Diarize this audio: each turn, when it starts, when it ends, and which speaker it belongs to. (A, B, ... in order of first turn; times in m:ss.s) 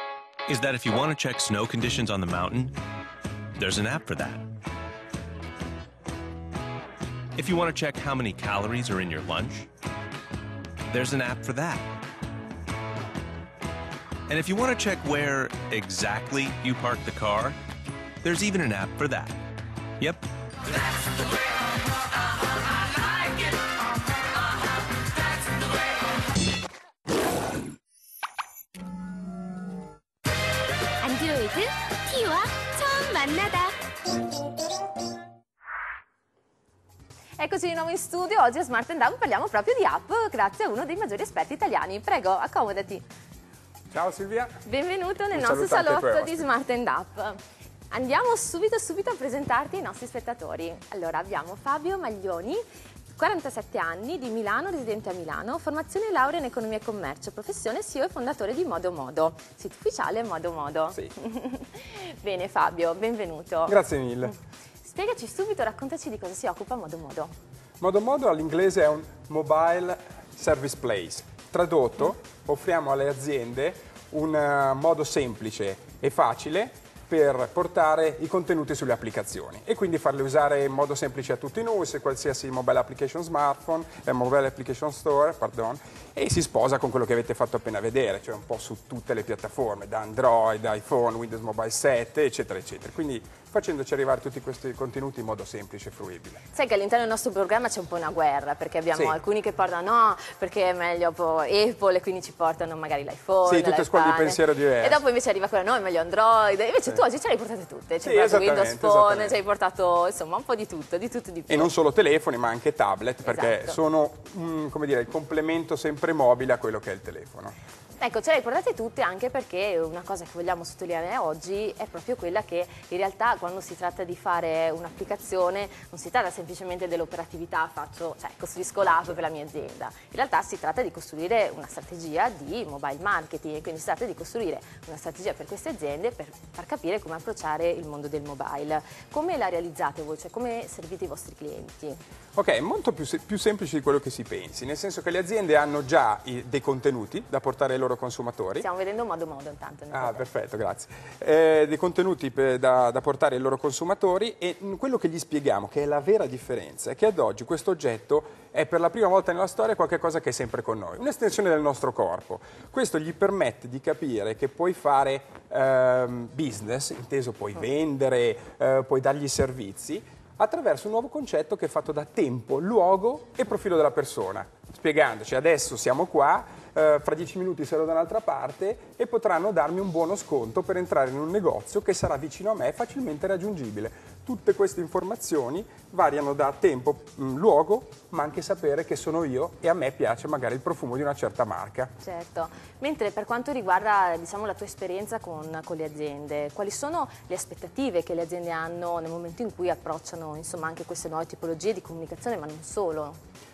0:00.5-0:02.8 A
0:03.6-0:04.4 A
0:07.4-0:09.7 A
0:10.9-0:11.9 A
0:14.3-0:17.6 A
0:18.2-0:19.4 A
0:20.0-0:20.2 A
0:31.0-0:33.8 B
0:37.4-0:43.0 B
0:43.9-0:44.6 C
0:44.6-0:47.4 B
0:45.3-0:46.5 C
0:47.9-0:52.6 B
0:53.2-1:03.8 B
1:03.7-1:04.4 C
1:04.8-1:07.3 B
1:07.8-1:36.4 C
1:36.5-1:51.7 B
1:43.4-1:45.0 C
1:48.0-1:49.4 C
1:51.5-1:57.5 C
1:53.2-1:53.8 B
1:58.0-2:22.0 B
2:22.4-2:28.7 C
2:28.6-2:30.3 B
2:29.9-3:11.9 C
3:12.0-3:23.2 B